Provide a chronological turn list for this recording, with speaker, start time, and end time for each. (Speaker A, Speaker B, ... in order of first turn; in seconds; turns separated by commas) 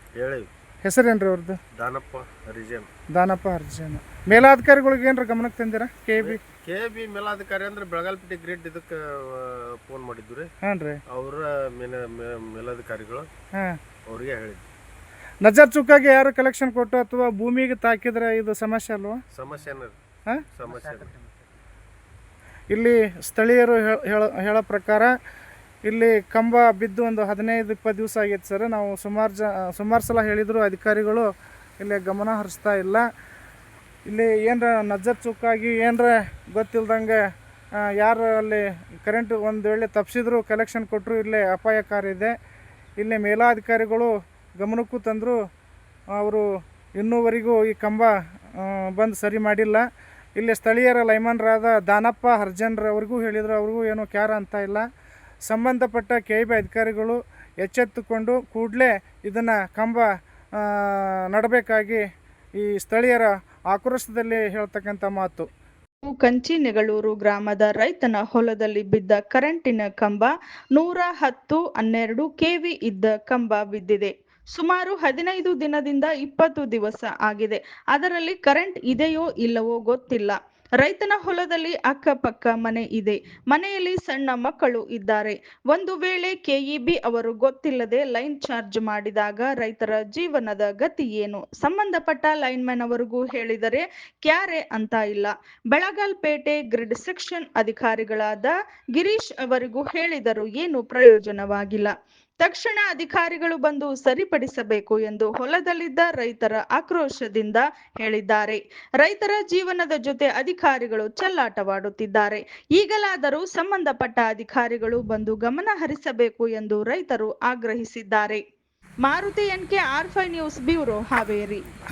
Speaker A: 0.2-0.5, Speaker B: 0.8-1.6, Speaker A: 1.8-2.9, Speaker B: 3.1-6.4, Speaker A: 6.2-10.5, Speaker B: 10.6-11.0, Speaker A: 11.1-13.3, Speaker A: 14.1-14.6, Speaker B: 15.4-19.2, Speaker A: 19.4-19.9, Speaker A: 20.6-21.2, Speaker B: 22.7-25.1, Speaker B: 25.9-31.3, Speaker B: 31.8-33.0, Speaker B: 34.1-37.2, Speaker B: 38.0-42.3, Speaker B: 43.0-45.4, Speaker B: 46.2-46.4, Speaker B: 47.0-49.8, Speaker B: 50.4-54.8, Speaker B: 55.5-62.0, Speaker B: 62.6-65.5, Speaker C: 66.0-118.4, Speaker C: 119.0-121.6